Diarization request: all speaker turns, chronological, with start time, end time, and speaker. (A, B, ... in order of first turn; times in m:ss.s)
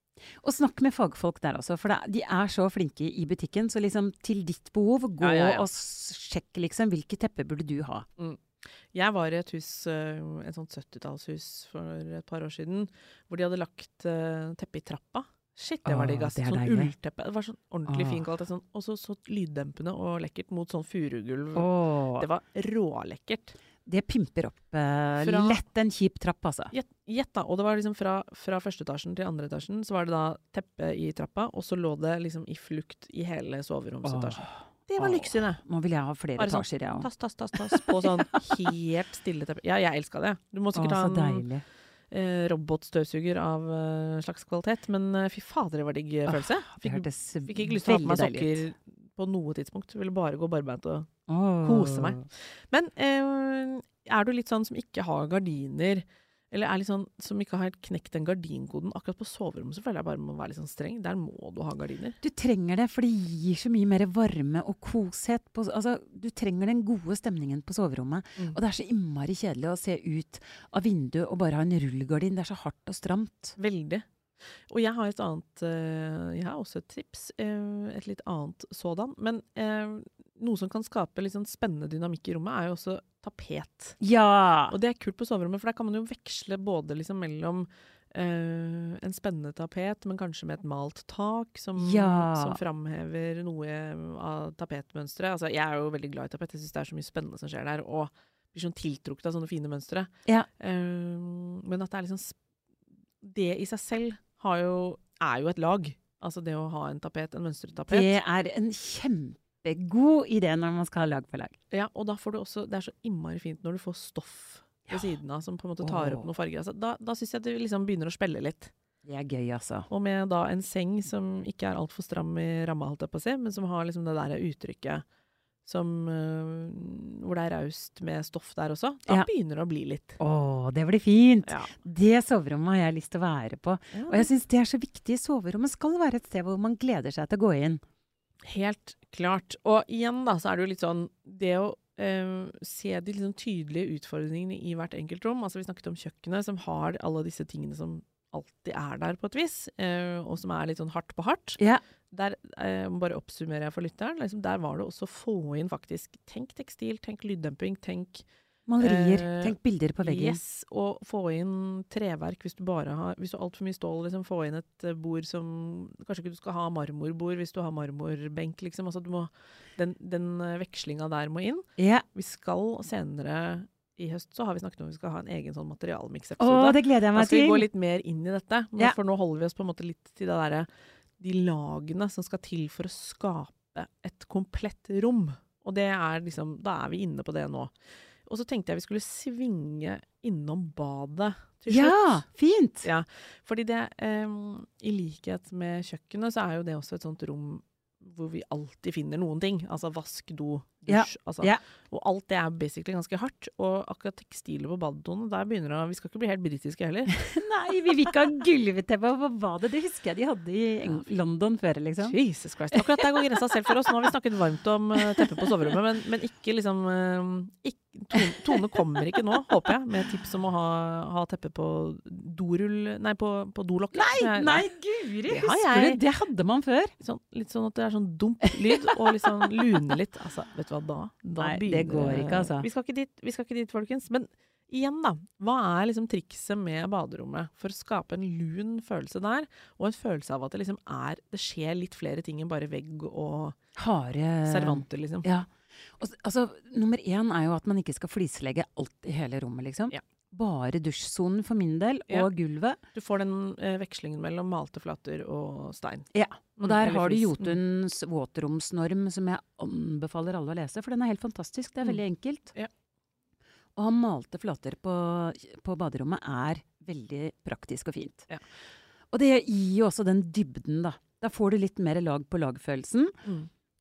0:00.4-0:08.0 A
0:05.2-0:05.7 B
0:08.2-0:23.5 B
0:15.8-0:16.9 A
0:17.9-0:18.2 A
0:21.6-0:22.3 A
0:23.8-0:26.7 A
0:25.2-0:25.6 B
0:26.7-0:35.6 B
0:34.0-0:38.0 A
0:36.4-0:41.4 B
0:40.7-0:41.6 A
0:42.1-1:02.2 B
0:46.3-0:48.6 A
0:51.3-0:52.2 A
1:02.2-1:13.6 A
1:13.6-1:24.0 B
1:24.0-1:24.8 A
1:24.7-1:42.4 B
1:31.8-1:32.6 A
1:43.2-1:48.2 B
1:47.9-1:51.6 A
1:51.7-1:58.7 B
1:55.8-1:56.3 A
1:59.0-1:59.9 A
1:59.9-2:05.0 B
2:05.6-2:10.2 B
2:10.2-2:17.8 A
2:11.4-2:11.7 B
2:13.9-2:14.3 B
2:18.4-2:38.2 B
2:38.7-2:40.4 A
2:38.8-3:12.2 B
2:51.8-2:52.0 A
2:56.4-2:57.7 A
3:11.7-3:12.9 A
3:12.8-3:27.4 B
3:20.9-3:21.6 A
3:27.1-3:32.2 A
3:32.0-3:44.7 B
3:32.7-3:33.1 A
3:35.1-3:35.7 A
3:38.1-3:38.8 A
3:43.9-3:46.9 A
3:45.3-3:46.0 B
3:47.0-4:03.6 B
3:48.6-3:50.0 A
3:51.4-3:52.7 A
4:03.8-4:12.8 A
4:04.4-4:05.3 B
4:12.9-4:17.6 B
4:16.1-4:22.5 A
4:23.8-4:28.3 A
4:29.1-4:33.2 A